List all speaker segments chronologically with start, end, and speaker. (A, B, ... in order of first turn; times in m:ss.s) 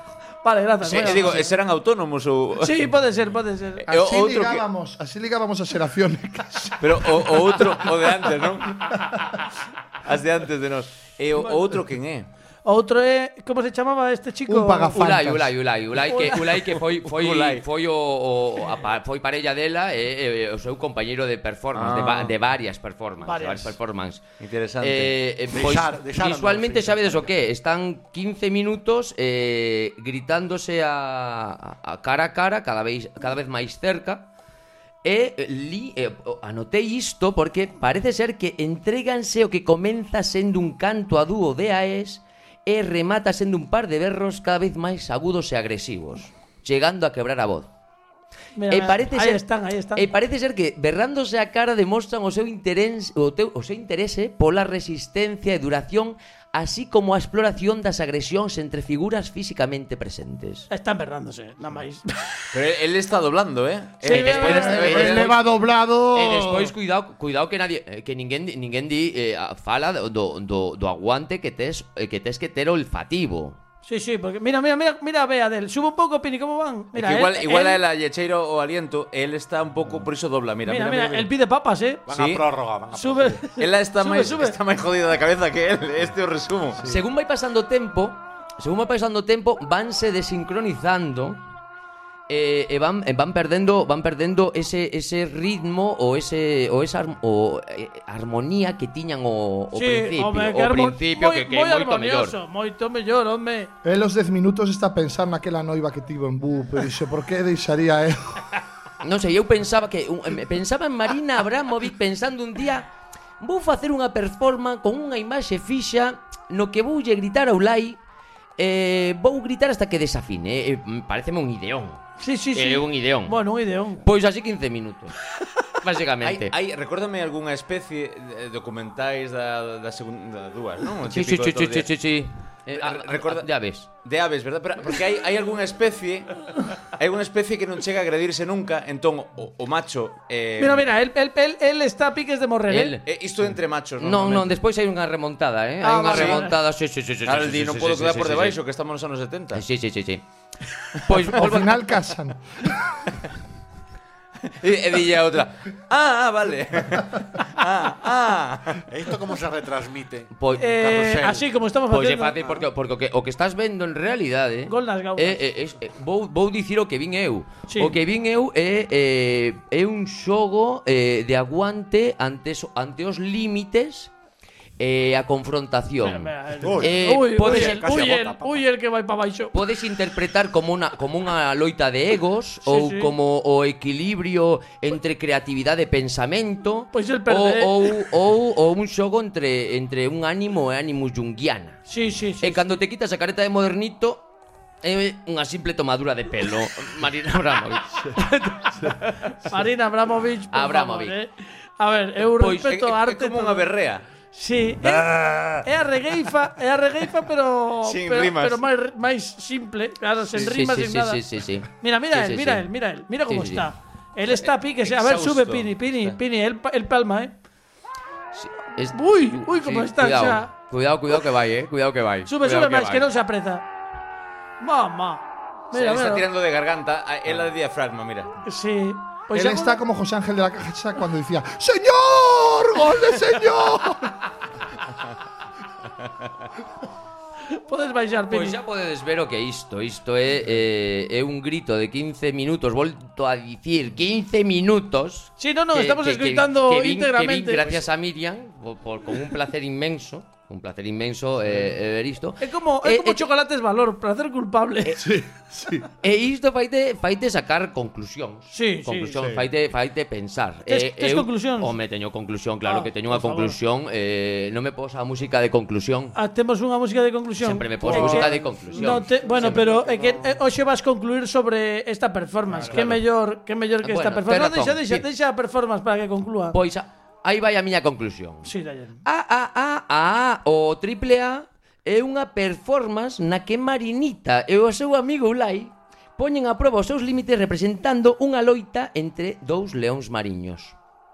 0:00.4-0:01.5 A
0:00.8-0:02.8 B
0:02.6-0:03.9 A
0:03.9-0:08.3 C
0:03.9-0:04.6 B
0:06.8-0:09.0 B
0:08.9-0:09.4 C
0:10.0-0:12.3 B
0:12.6-0:15.1 A
0:14.5-0:15.5 C
0:14.9-0:24.2 D
0:16.1-0:16.4 A
0:16.3-0:17.6 B
0:21.7-0:22.3 B
0:23.2-0:23.7 A
0:24.4-0:25.2 B
0:24.8-0:34.3 D
0:25.5-0:27.3 E
0:35.0-0:47.7 D
0:48.6-0:50.1 A
0:48.7-0:49.4 D
0:49.9-1:00.7 D
1:00.7-1:02.5 A
1:02.5-1:05.3 B
1:04.0-1:04.9 A
1:04.0-1:05.4 D
1:04.7-1:06.7 C
1:06.1-1:13.6 D
1:13.8-1:17.8 A
1:16.9-1:21.3 B
1:20.6-1:22.0 A
1:22.1-1:23.4 E
1:22.1-1:22.4 B
1:22.9-1:24.6 A
1:23.6-1:26.9 B
1:26.8-1:31.4 D
1:32.3-1:42.4 D
1:39.7-1:43.7 A
1:43.8-1:48.6 C
1:49.0-1:52.9 D
1:53.4-1:58.0 D
1:58.6-2:03.4 D
2:02.2-2:04.0 A
2:04.0-2:05.1 D
2:05.8-2:06.5 D
2:06.2-2:11.9 B
2:11.0-2:13.9 D
2:12.7-2:13.5 B
2:14.0-2:20.8 B
2:20.6-2:23.0 A
2:22.7-2:23.0 D
2:23.0-2:24.5 B
2:24.0-2:28.6 D
2:25.8-2:26.5 A
2:26.1-2:26.4 B
2:27.2-2:29.6 B
2:29.5-2:30.2 D
2:31.0-2:31.9 D
2:31.1-2:33.1 C
2:34.5-2:38.9 B
2:38.9-2:41.4 E
2:40.3-2:40.6 D
2:40.6-2:42.4 A
2:41.9-2:54.1 D
2:42.4-2:42.6 E
2:44.7-2:45.5 A
2:47.7-2:48.0 A
2:54.8-2:58.0 D
2:56.0-2:59.6 A
2:56.6-2:58.6 E
2:59.5-3:11.8 D
3:02.6-3:03.1 A
3:06.9-3:08.1 A
3:11.9-3:12.8 A
3:12.4-3:14.3 D
3:14.8-3:18.3 D
3:18.2-3:18.8 A
3:19.4-3:23.7 A
3:20.5-3:21.2 D
3:22.3-3:22.7 D
3:22.6-3:24.0 B
3:24.3-3:31.2 A
3:24.8-3:25.6 C
3:27.8-3:28.6 B
3:30.3-3:32.6 D
3:31.8-3:37.3 A
3:33.3-3:33.7 D
3:34.3-3:36.2 B
3:38.3-3:43.1 D
3:38.9-3:40.5 A
3:42.2-3:43.6 A
3:44.6-3:46.2 A
3:45.7-3:48.3 B
3:48.4-3:49.8 A
3:49.3-3:54.2 C
3:57.5-3:58.6 A
3:58.3-4:13.2 D
4:05.4-4:07.8 A
4:12.4-4:15.0 A
4:15.0-4:15.9 C
4:16.0-4:26.1 D
4:18.5-4:19.2 A
4:19.1-4:19.5 C
4:20.7-4:21.7 A
4:22.6-4:23.6 A
4:26.1-4:36.6 A
4:27.4-4:29.8 D
4:32.5-4:32.9 C
4:32.7-4:33.0 D
4:33.8-4:35.0 D
4:36.5-4:38.5 D
4:38.4-4:39.0 A
4:39.0-4:50.8 D